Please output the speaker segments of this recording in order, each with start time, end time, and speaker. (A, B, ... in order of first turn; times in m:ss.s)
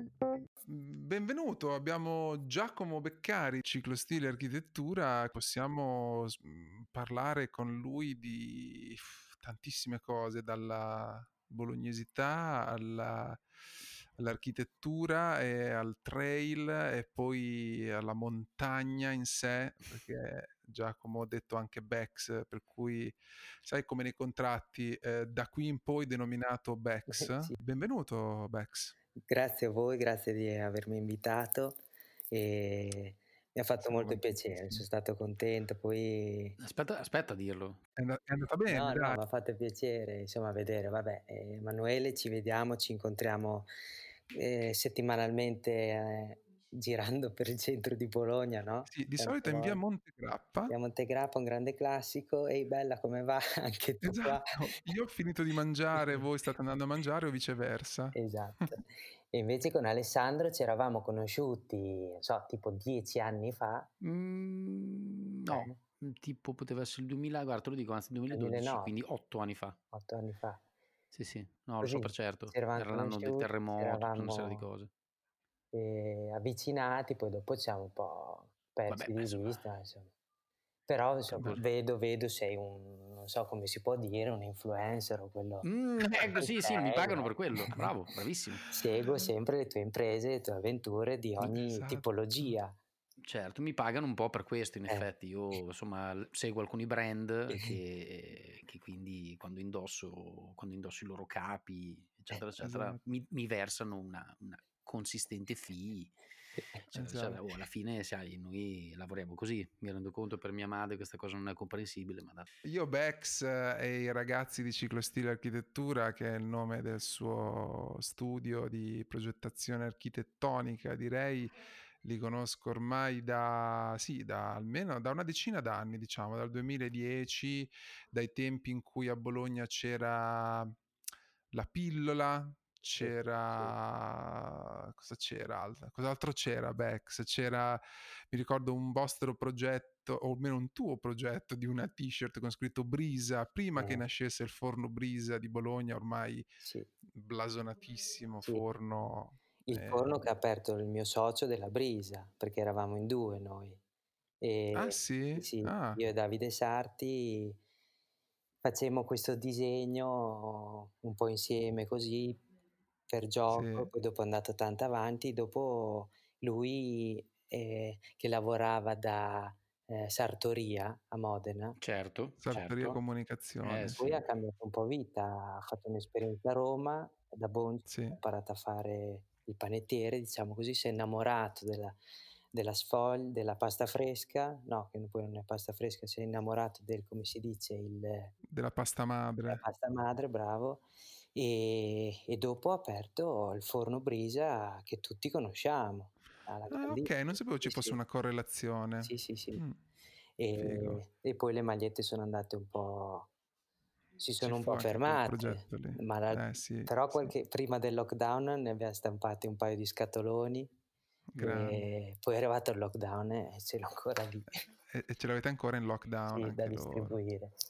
0:00.6-0:13.4 A
0:14.2-0:29.0 A
0:27.1-0:27.6 B
0:29.2-0:31.8 B
0:32.3-0:36.6 B
0:33.8-0:34.8 A
0:36.6-0:37.8 C
0:38.0-0:39.2 A
0:38.7-0:43.7 B
0:44.3-0:49.8 B
0:48.9-0:50.7 A
0:50.7-0:54.6 B
0:54.0-0:58.2 A
0:56.0-0:56.2 B
0:58.1-1:03.9 B
1:04.0-1:09.8 C
1:05.5-1:05.8 B
1:08.3-1:08.9 B
1:09.9-1:10.6 B
1:11.1-1:14.9 C
1:11.8-1:14.6 B
1:15.7-1:20.1 B
1:18.9-1:19.6 C
1:20.9-1:27.3 B
1:21.3-1:21.6 C
1:25.6-1:28.6 C
1:28.7-1:32.8 B
1:31.4-1:32.5 A
1:33.2-1:46.1 C
1:42.6-1:43.0 A
1:46.9-1:52.5 C
1:46.9-1:47.4 A
1:52.6-2:10.8 A
2:11.5-2:17.8 A
2:13.0-2:13.7 B
2:18.3-2:26.4 A
2:23.7-2:24.0 B
2:26.6-2:26.9 B
2:27.1-2:30.2 A
2:29.7-2:33.8 B
2:34.4-2:37.6 B
2:34.7-2:36.0 A
2:38.6-2:42.4 B
2:43.1-2:51.8 B
2:43.5-2:43.9 A
2:51.8-2:53.0 C
2:52.4-2:54.2 A
2:53.6-2:54.0 C
2:53.8-3:02.0 B
2:57.9-2:58.2 A
3:02.5-3:08.3 B
3:08.5-3:09.6 A
3:09.5-3:10.8 B
3:11.3-3:18.0 B
3:16.7-3:19.8 A
3:19.0-3:19.6 B
3:20.4-3:23.3 B
3:20.5-3:21.0 A
3:24.2-3:30.7 B
3:24.4-3:27.3 A
3:31.3-3:31.9 A
3:31.4-3:34.6 B
3:34.9-3:37.2 A
3:36.3-3:37.5 B